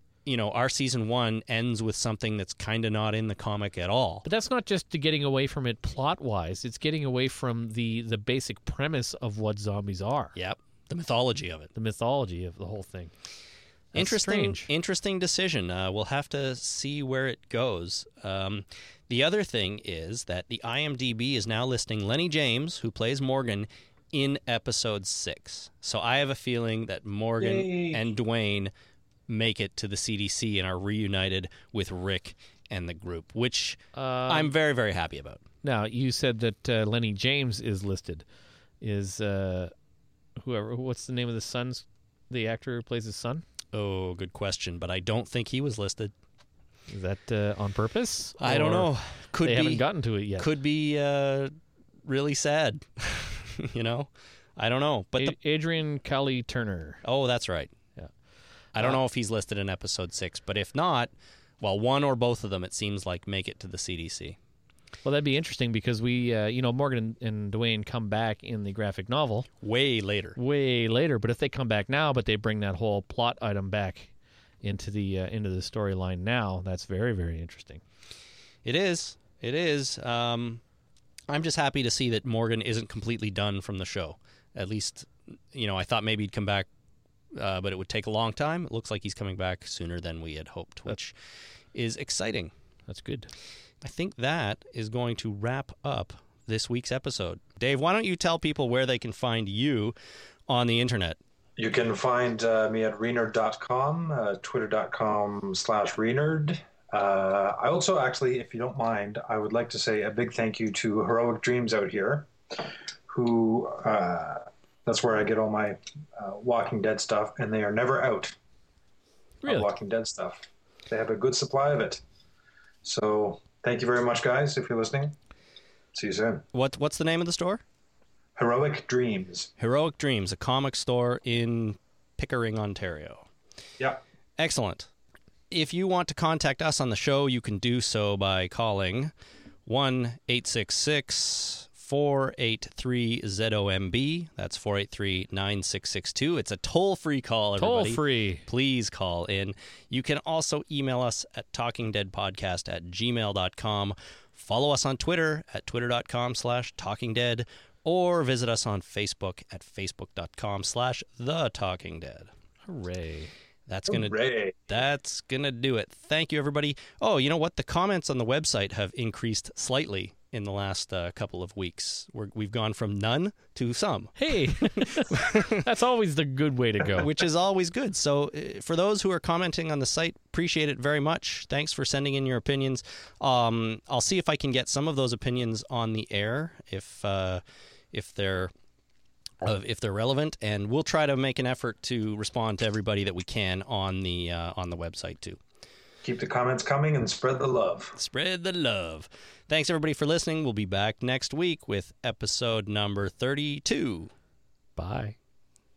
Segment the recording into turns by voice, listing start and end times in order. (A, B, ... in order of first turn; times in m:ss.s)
0:00.2-0:04.2 A
0:04.2-0:10.3 B
0:10.4-0:11.7 A
0:11.7-0:13.1 B
0:13.9-0:14.7 B
0:14.0-0:28.7 A
0:27.4-0:28.0 C
0:29.3-0:35.4 A
0:33.9-0:34.5 B
0:35.6-0:38.2 B
0:38.8-0:39.7 B
0:40.4-0:43.4 B
0:43.7-0:46.1 A
0:46.9-0:48.9 B
0:48.4-0:49.8 A
0:49.4-0:50.5 B
0:50.4-0:51.5 A
0:52.0-0:55.4 A
0:55.2-0:57.0 B
0:57.0-0:57.7 A
0:58.7-1:04.4 A
1:05.0-1:09.5 B
1:09.6-1:10.4 A
1:10.4-1:14.1 B
1:14.6-1:17.8 B
1:18.6-1:20.6 A
1:21.3-1:26.7 A
1:27.3-1:31.1 A
1:31.7-1:32.5 A
1:32.9-1:33.3 B
1:33.8-1:40.0 A
1:40.5-1:41.2 A
1:41.6-1:52.3 C
1:53.1-1:58.4 C
1:59.4-1:59.7 B
1:59.4-2:02.0 C
2:02.8-2:05.2 C
2:05.9-2:06.4 C
2:06.5-2:07.6 A
2:08.4-2:09.5 C
2:09.6-2:13.3 A
2:14.4-2:14.9 A
2:15.5-2:19.1 A
2:19.6-2:42.3 A
2:27.6-2:28.4 B
2:42.7-2:43.3 B
2:43.7-2:55.6 A
2:43.9-2:44.6 C
2:54.2-2:57.1 B
2:57.0-3:08.5 A
3:09.4-3:15.4 A
3:16.0-3:17.9 C
3:18.0-3:24.1 A
3:24.8-3:25.1 B